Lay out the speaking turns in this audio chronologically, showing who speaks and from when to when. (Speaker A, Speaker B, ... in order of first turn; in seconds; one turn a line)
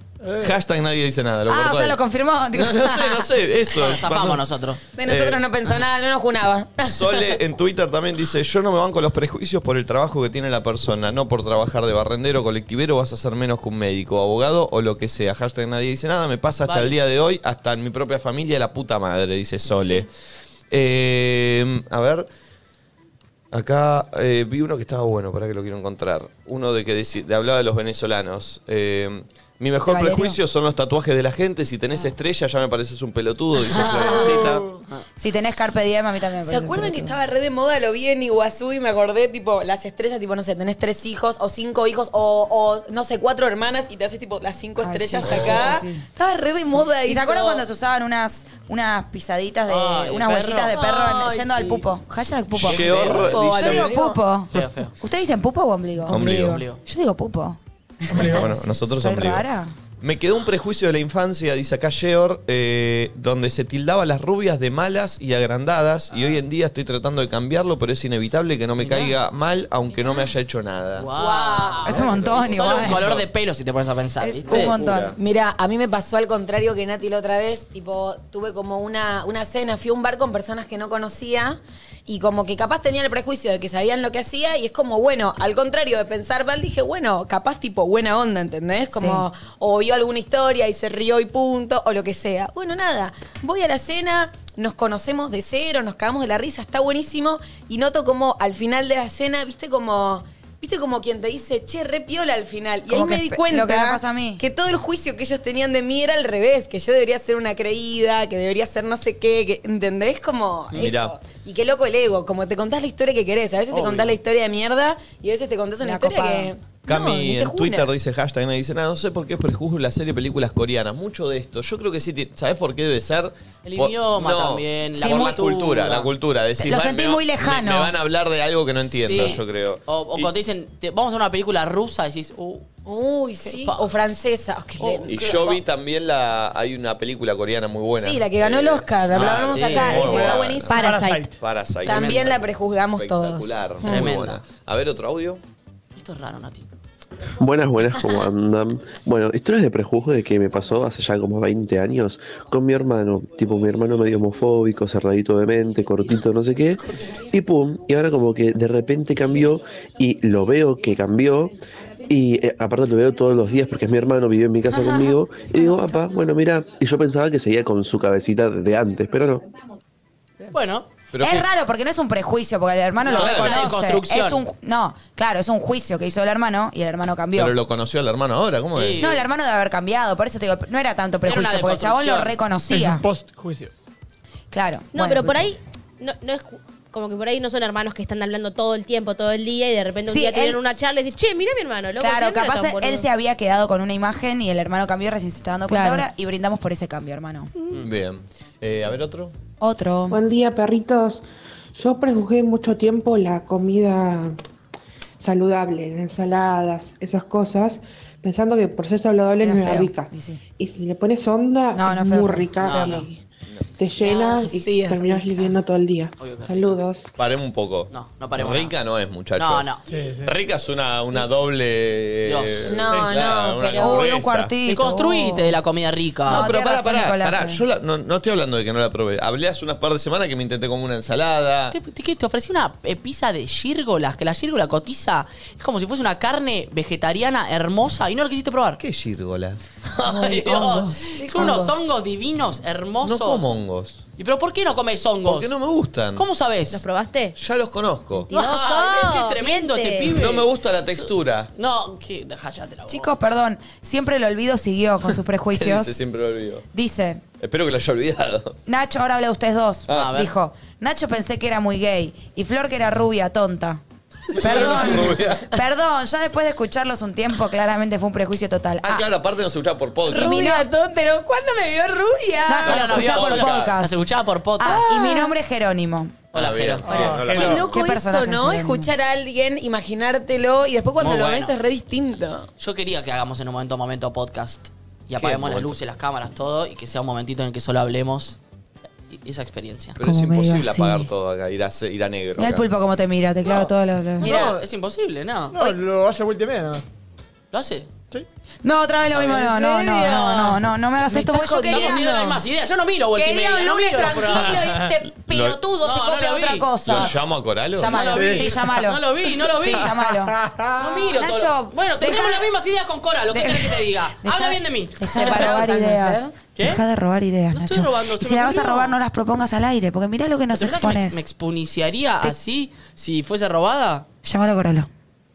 Speaker A: 0.2-0.6
Speaker B: 0.4-2.0
Speaker C: 1.5-3.3
Speaker B: 2.5-4.5
Speaker D: 3.8-4.8
Speaker E: 5.0-7.3
Speaker B: 5.0-5.4
Speaker B: 6.8-20.1
Speaker D: 16.6-17.0
Speaker D: 19.7-20.1
Speaker B: 20.7-22.3
Speaker B: 23.5-34.6
Speaker C: 29.9-30.4
Speaker E: 33.7-34.5
Speaker C: 35.2-37.2
Speaker E: 36.4-47.6
Speaker C: 44.8-46.1
Speaker B: 45.2-45.6
Speaker D: 45.3-45.5
Speaker C: 47.0-56.2
Speaker D: 49.7-51.9
Speaker D: 52.6-54.0
Speaker B: 52.6-54.0
Speaker E: 53.3-54.1
Speaker D: 54.5-54.9
Speaker B: 56.1-56.6
Speaker E: 56.1-56.6
Speaker D: 56.2-56.8
Speaker C: 56.8-59.7
Speaker A: 58.2-58.5
Speaker B: 58.3-59.5
Speaker B: 60.0-71.1
Speaker D: 66.1-66.4
Speaker D: 68.8-69.2
Speaker D: 71.0-74.8
Speaker E: 71.2-72.1
Speaker C: 71.9-73.0
Speaker B: 71.9-73.2
Speaker C: 74.2-75.2
Speaker B: 74.5-75.2
Speaker E: 75.2-117.9
Speaker C: 88.9-89.3
Speaker C: 102.9-104.4
Speaker B: 110.8-111.2
Speaker D: 113.7-114.2
Speaker C: 115.8-116.5
Speaker B: 116.9-130.3
Speaker D: 123.6-126.1
Speaker C: 125.0-125.4
Speaker C: 126.6-128.0
Speaker D: 128.9-132.7
Speaker E: 132.8-135.1
Speaker D: 133.5-133.9
Speaker D: 134.8-135.6
Speaker B: 135.1-140.9
Speaker E: 137.9-140.9
Speaker D: 139.1-140.3
Speaker A: 139.8-141.4
Speaker F: 140.7-141.3
Speaker B: 141.4-145.4
Speaker E: 141.8-144.1
Speaker D: 141.9-142.3
Speaker D: 143.8-144.4
Speaker D: 146.0-146.7
Speaker G: 147.4-161.5
Speaker G: 162.1-169.4
Speaker C: 164.7-166.0
Speaker D: 170.5-170.9
Speaker B: 171.1-171.5
Speaker C: 171.2-177.5
Speaker D: 173.0-174.4
Speaker B: 173.1-173.7
Speaker B: 177.4-179.1
Speaker D: 178.8-179.2
Speaker C: 179.0-183.1
Speaker D: 181.3-182.4
Speaker A: 182.7-183.7
Speaker C: 184.5-185.5
Speaker F: 184.9-193.1
Speaker C: 190.1-190.6
Speaker C: 192.0-197.5
Speaker F: 195.7-196.0
Speaker B: 197.8-199.3
Speaker C: 199.6-200.2
Speaker H: 200.1-201.2
Speaker H: 201.8-204.4
Speaker H: 205.2-213.2
Speaker C: 209.4-210.4
Speaker C: 211.7-212.5
Speaker D: 212.6-213.1
Speaker H: 213.8-217.1
Speaker E: 214.0-215.5
Speaker D: 216.2-216.7
Speaker B: 217.2-224.5
Speaker D: 217.9-218.8
Speaker D: 219.4-219.8
Speaker A: 219.9-220.4
Speaker D: 222.2-222.9
Speaker E: 222.7-224.1
Speaker C: 223.8-225.6
Speaker D: 224.7-226.5
Speaker B: 226.3-231.8
Speaker C: 226.3-227.6
Speaker D: 231.7-238.8
Speaker B: 238.8-239.6
Speaker D: 239.9-243.5
Speaker E: 240.1-241.8
Speaker C: 241.2-241.7
Speaker B: 243.0-244.0
Speaker D: 244.2-245.5
Speaker B: 245.2-246.3
Speaker D: 246.2-246.8
Speaker F: 246.7-247.4
Speaker B: 247.4-248.3
Speaker F: 248.3-250.2
Speaker D: 248.3-253.1
Speaker B: 250.1-251.5
Speaker C: 252.9-255.9
Speaker B: 255.6-256.6
Speaker C: 256.7-257.2
Speaker B: 257.4-258.6
Speaker C: 258.7-263.8
Speaker D: 259.9-260.4
Speaker B: 264.3-265.5
Speaker C: 264.4-269.1
Speaker B: 268.8-270.4
Speaker E: 270.1-273.0
Speaker C: 270.1-270.7
Speaker C: 272.5-273.9
Speaker D: 272.6-274.9
Speaker B: 272.8-273.7
Speaker C: 274.6-276.2
Speaker E: 274.7-275.3
Speaker D: 276.3-277.5
Speaker B: 276.3-277.8
Speaker A: 276.9-277.6
Speaker E: 277.3-282.5
Speaker C: 277.5-278.9
Speaker D: 281.0-281.5
Speaker D: 282.6-288.4
Speaker B: 285.2-285.8
Speaker D: 289.1-290.0
Speaker B: 290.0-292.7
Speaker C: 290.0-291.1
Speaker C: 292.4-294.5
Speaker A: 294.2-294.6
Speaker D: 294.2-295.8
Speaker A: 295.5-296.9
Speaker D: 297.5-297.9
Speaker C: 298.6-302.1
Speaker D: 299.1-300.6
Speaker E: 301.1-302.4
Speaker D: 301.7-304.7
Speaker E: 303.1-305.6
Speaker A: 304.6-304.9
Speaker B: 305.1-305.6
Speaker C: 305.3-307.1
Speaker D: 305.8-307.1
Speaker B: 306.9-307.9
Speaker C: 307.8-310.4
Speaker D: 307.8-310.0
Speaker A: 308.1-308.5
Speaker A: 309.9-310.9
Speaker D: 310.8-315.5
Speaker C: 311.1-312.5
Speaker C: 313.3-321.2
Speaker E: 315.1-316.3
Speaker D: 316.6-316.8
Speaker D: 317.5-319.0
Speaker D: 320.5-324.1
Speaker C: 324.2-324.9